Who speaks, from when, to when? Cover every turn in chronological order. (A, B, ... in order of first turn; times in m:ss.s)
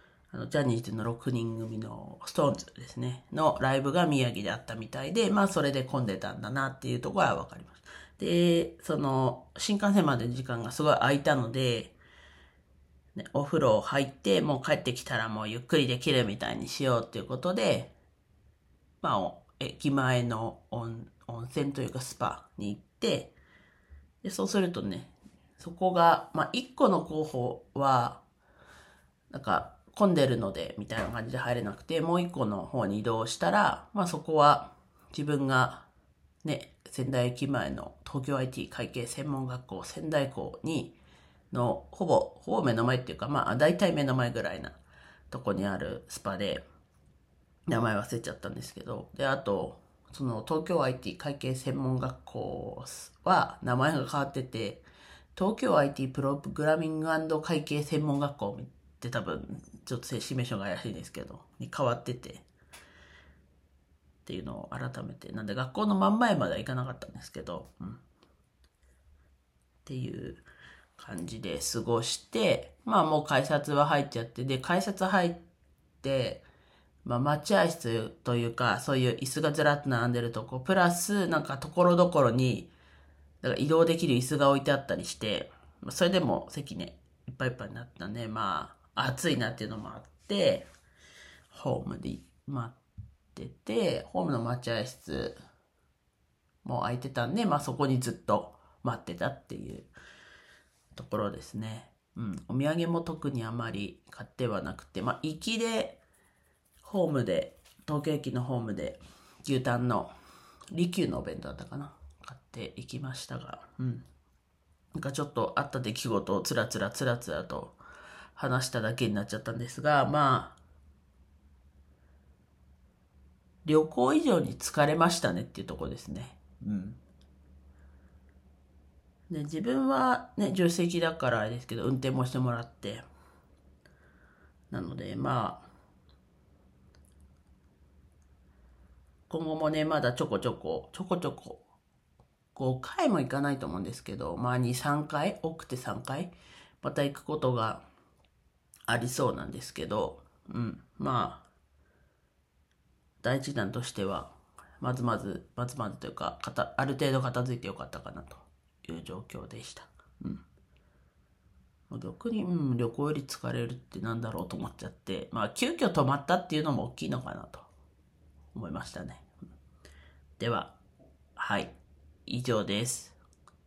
0:00.3-0:12.0 A
0:13.2-0:17.9 A
0:19.0-0:23.3 A
0:24.2-0:28.2 A
0:29.3-0:35.9 A
0:36.4-0:40.9 A
0:41.5-0:44.8 A
0:45.3-0:46.6 A
0:47.7-0:54.8 A
0:55.4-1:02.5 A
1:04.2-1:08.0 A
1:09.8-1:10.4 A
1:11.0-1:15.4 A
1:16.0-1:16.4 A
1:17.0-1:22.7 A
1:23.4-1:30.7 A
1:31.5-1:32.8 A
1:33.3-1:35.4 A
1:36.6-1:39.9 A
1:40.9-1:46.0 A
1:46.8-1:50.1 A
1:50.7-1:54.0 A
1:55.0-1:57.8 A
1:58.4-2:00.6 A
2:03.6-2:07.0 A
2:09.3-2:13.0 A
2:14.7-2:15.7 A
2:19.3-2:21.6 A
2:22.6-2:27.8 A
2:28.9-2:31.4 A
2:33.2-2:40.4 A
2:41.9-2:47.7 A
2:48.5-2:49.3 A
2:50.4-2:50.8 A
2:51.4-2:53.2 A